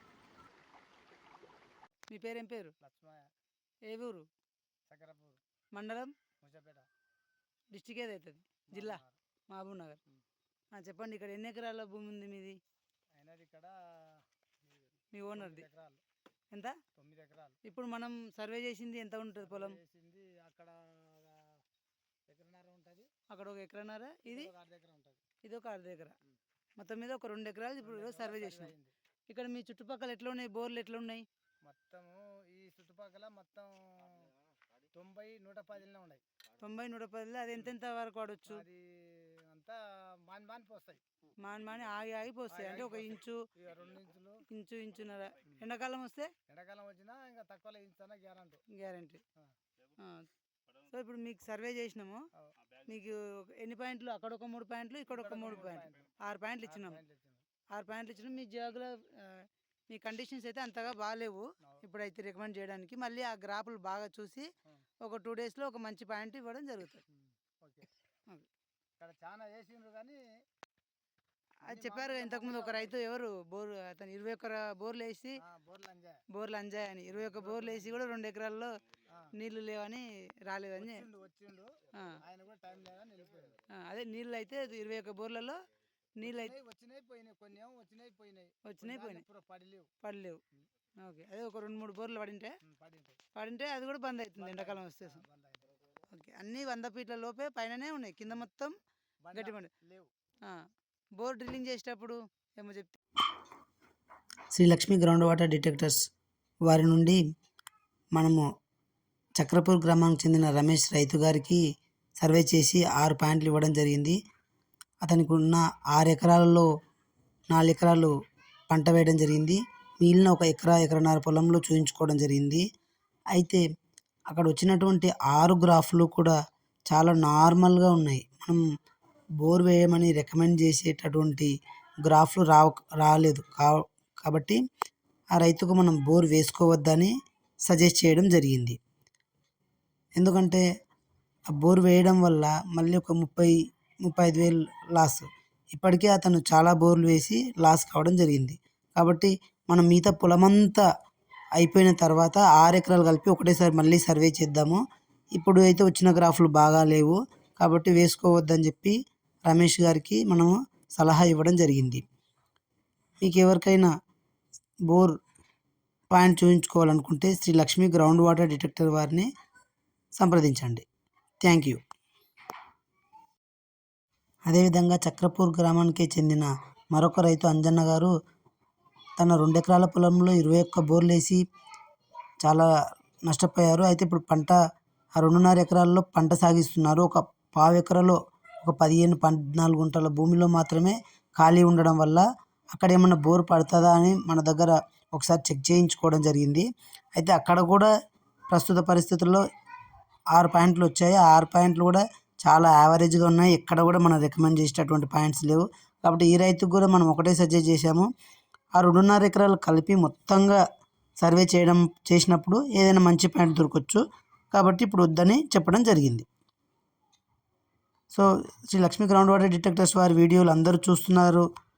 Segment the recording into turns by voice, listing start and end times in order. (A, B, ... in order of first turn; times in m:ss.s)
0:02.1-0:02.7 A
0:02.8-0:03.2 B
0:03.9-0:04.3 A
0:04.9-0:05.4 B
0:05.7-0:06.1 A
0:06.4-0:06.9 B
0:07.7-0:10.0 A
0:08.7-0:09.2 B
0:10.7-0:12.6 A
0:13.1-0:16.0 B
0:15.1-0:15.6 A
0:16.5-0:16.8 A
0:16.9-0:17.6 B
0:17.6-0:19.8 A
0:19.4-0:21.6 B
0:22.3-0:23.1 B
0:23.3-0:24.5 A
0:24.2-0:25.2 B
0:25.4-0:26.2 A
0:26.8-0:28.7 A
0:27.8-0:28.9 B
0:29.3-0:31.2 A
0:31.6-0:34.3 B
0:34.9-0:36.2 B
0:36.6-0:38.6 A
0:38.5-0:41.0 B
0:41.4-0:43.4 A
0:42.5-0:44.4 B
0:44.5-0:46.3 A
0:46.5-0:48.6 B
0:48.7-0:49.2 A
0:50.0-0:50.3 A
0:50.9-0:52.2 A
0:52.8-0:57.0 A
0:55.1-0:56.1 B
0:56.6-0:57.4 B
0:57.7-1:04.5 A
1:05.0-1:07.0 A
1:07.1-1:07.9 B
1:09.0-1:10.2 B
1:11.6-1:15.4 A
1:11.6-1:12.9 B
1:15.4-1:16.2 B
1:16.3-1:18.7 A
1:17.2-1:17.9 B
1:19.4-1:21.0 A
1:20.8-1:23.6 B
1:22.0-1:22.2 A
1:23.7-1:25.6 A
1:26.2-1:26.5 A
1:26.2-1:29.9 B
1:28.6-1:29.2 A
1:30.0-1:30.4 A
1:31.0-1:32.5 A
1:32.6-1:33.2 B
1:33.3-1:35.2 A
1:34.4-1:35.7 B
1:36.1-1:38.8 A
1:39.2-1:40.1 B
1:39.3-1:39.7 A
1:41.2-1:43.0 A
1:44.5-1:46.1 C
1:46.6-1:47.2 C
1:48.1-1:48.4 C
1:49.4-1:51.6 C
1:52.2-1:54.2 C
1:55.0-1:56.7 C
1:57.5-1:58.1 C
1:58.7-2:02.6 C
2:03.3-2:03.6 C
2:04.3-2:06.4 C
2:06.9-2:08.6 C
2:09.4-2:11.5 C
2:12.0-2:14.6 C
2:15.3-2:17.1 C
2:17.7-2:18.8 C
2:20.2-2:20.6 C
2:21.5-2:30.8 C
2:31.6-2:34.8 C
2:35.4-2:42.0 C
2:43.2-2:43.9 C
2:44.9-2:45.2 C
2:46.1-2:49.3 C
2:50.2-2:50.8 C
2:51.4-2:51.8 C
2:54.4-2:58.1 C
2:59.2-3:01.4 C
3:02.4-3:02.7 C
3:03.2-3:04.6 C
3:05.2-3:17.9 C
3:18.5-3:19.4 C
3:20.3-3:28.1 C
3:28.8-3:30.6 C
3:31.2-3:36.2 C
3:38.1-3:41.5 C